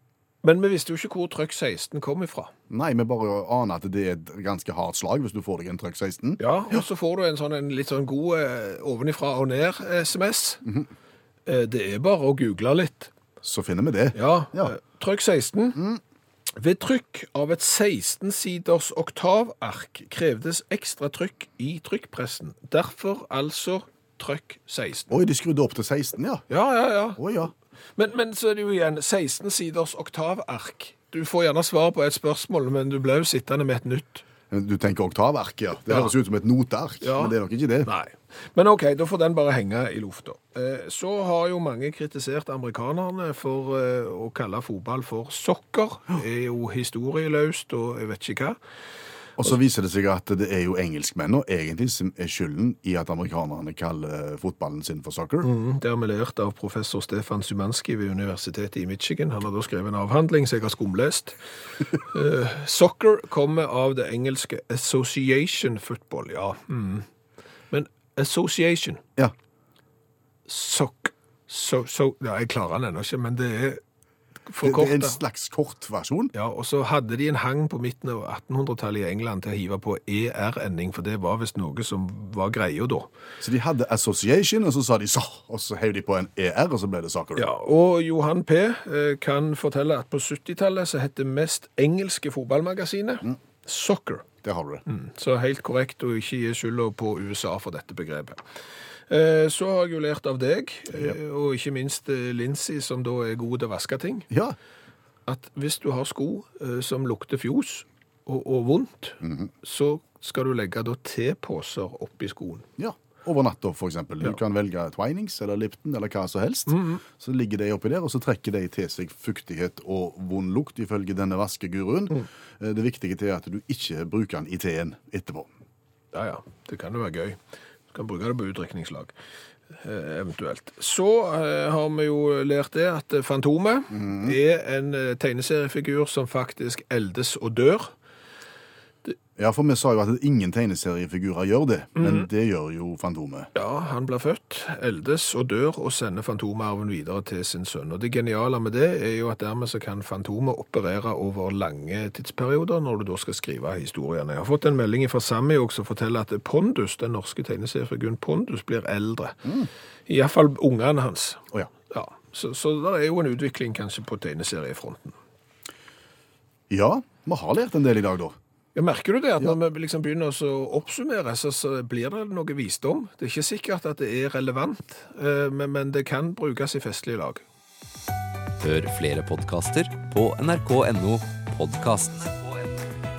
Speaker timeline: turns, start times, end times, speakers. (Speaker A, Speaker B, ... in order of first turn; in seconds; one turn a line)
Speaker A: 0.4-2.5
Speaker B: 2.7-6.8
Speaker A: 6.4-10.6
Speaker A: 11.5-13.1
Speaker B: 13.4-14.7
Speaker A: 14.1-15.8
Speaker B: 15.8-16.0
Speaker A: 16.6-25.2
Speaker B: 25.1-26.4
Speaker A: 26.5-27.2
Speaker B: 27.2-27.5
Speaker A: 28.0-34.2
Speaker B: 34.5-37.9
Speaker A: 37.0-48.6
Speaker B: 49.4-55.5
Speaker A: 55.4-61.4
Speaker A: 61.9-67.1
Speaker A: 67.7-69.0
Speaker A: 70.5-73.8
Speaker A: 74.5-75.2
Speaker B: 74.6-76.3
Speaker A: 76.3-83.1
Speaker B: 83.4-87.5
Speaker A: 87.4-94.3
Speaker B: 94.4-94.8
Speaker A: 94.9-98.4
Speaker A: 99.1-104.3
Speaker B: 104.3-104.6
Speaker A: 105.3-112.7
Speaker B: 109.2-109.5
Speaker B: 112.8-125.5
Speaker A: 116.7-117.0
Speaker A: 126.1-127.4
Speaker A: 127.9-129.1
Speaker A: 129.8-137.9
Speaker B: 133.9-134.4
Speaker B: 139.4-143.5
Speaker A: 142.0-142.3
Speaker A: 143.6-159.5
Speaker A: 160.1-165.2
Speaker B: 166.7-168.3
Speaker A: 168.8-177.4
Speaker C: 178.6-182.4